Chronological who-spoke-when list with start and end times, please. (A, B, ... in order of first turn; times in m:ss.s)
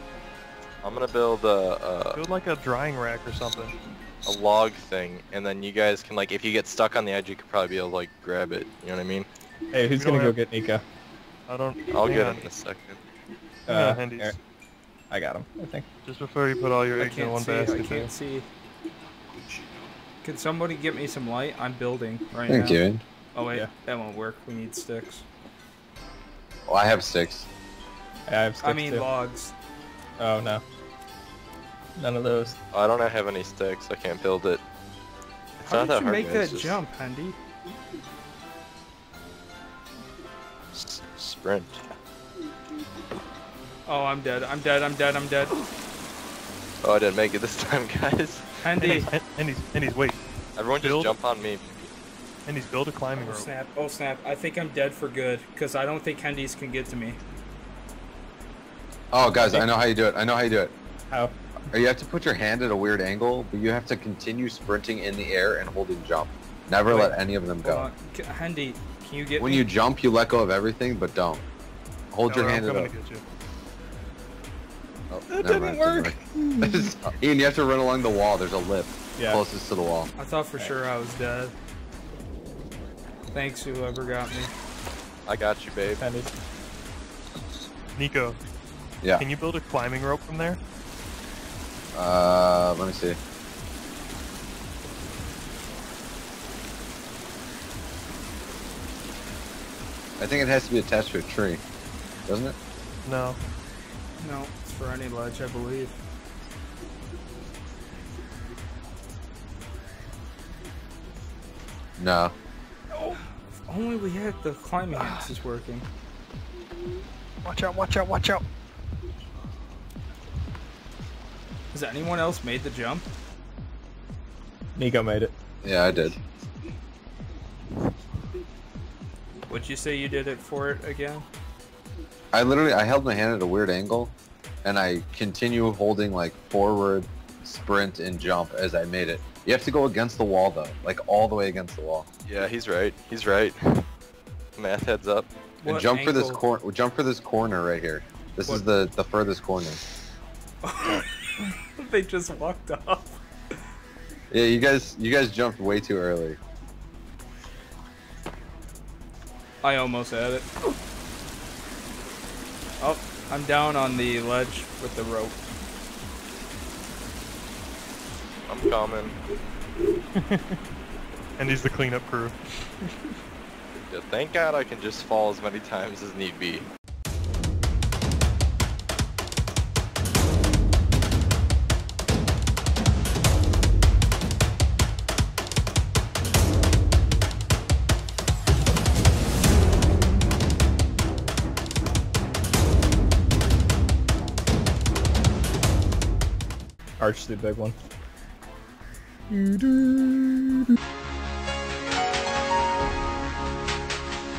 0:00.8-0:02.2 A
0:02.1-0:03.7 B
0:04.2-0:09.3 A
0:09.7-0:10.8 C
0:09.9-0:10.4 B
0:11.5-0:12.5 B
0:11.9-0:13.0 A
0:13.7-0:14.4 C
0:13.7-0:14.4 B
0:15.1-0:15.9 C
0:16.0-0:18.1 B
0:16.9-0:18.5 D
0:20.2-0:22.8 D
0:22.5-0:23.0 E
0:23.3-0:25.2 D
0:26.7-0:27.5 E
0:28.3-0:29.0 C
0:28.6-0:29.5 D
0:30.2-0:30.6 C
0:32.0-0:32.6 C
0:32.7-0:34.6 A
0:35.6-0:36.8 A
0:35.6-0:37.4 D
0:40.7-0:41.8 A
0:43.8-0:45.6 D
0:46.8-0:48.5 A
0:48.6-0:49.1 D
0:48.8-0:50.2 B
0:50.5-0:51.8 A
0:50.8-0:51.2 B
0:52.4-0:53.5 B
0:53.2-0:57.2 D
0:59.1-1:00.7 E
0:59.2-0:59.7 C
1:01.1-1:01.4 C
1:01.7-1:07.9 E
1:07.6-1:09.6 D
1:09.4-1:11.4 E
1:12.1-1:12.9 E
1:12.2-1:13.2 B
1:15.1-1:20.1 E
1:15.3-1:16.9 C
1:19.2-1:19.4 C
1:20.2-1:21.5 D
1:23.3-1:24.5 D
1:25.2-1:26.0 A
1:26.0-1:26.3 C
1:27.9-1:28.4 B
1:29.2-1:30.6 B
1:31.9-1:33.2 E
1:40.2-1:41.6 E
1:42.2-1:42.6 E
1:43.0-1:43.4 B
1:44.2-1:46.0 D
1:52.0-1:52.3 E
1:53.7-1:55.8 D
1:55.0-1:55.3 C
1:57.4-1:58.4 C
2:01.7-2:03.1 D
2:04.8-2:05.3 C
2:05.6-2:06.2 E
2:09.5-2:11.2 D
2:12.3-2:22.0 E
2:22.2-2:23.8 A
2:24.6-2:25.3 A
2:25.6-2:26.4 D
2:25.6-2:29.8 E
2:28.4-2:28.7 D
2:30.6-2:33.2 D
2:34.3-2:36.4 E
2:39.6-2:40.5 D
2:42.8-2:45.4 D
2:48.5-2:49.2 A
2:50.2-2:50.4 B
2:51.4-2:52.3 B
2:53.8-2:56.7 A
3:17.0-3:17.8 C
3:19.3-3:20.6 C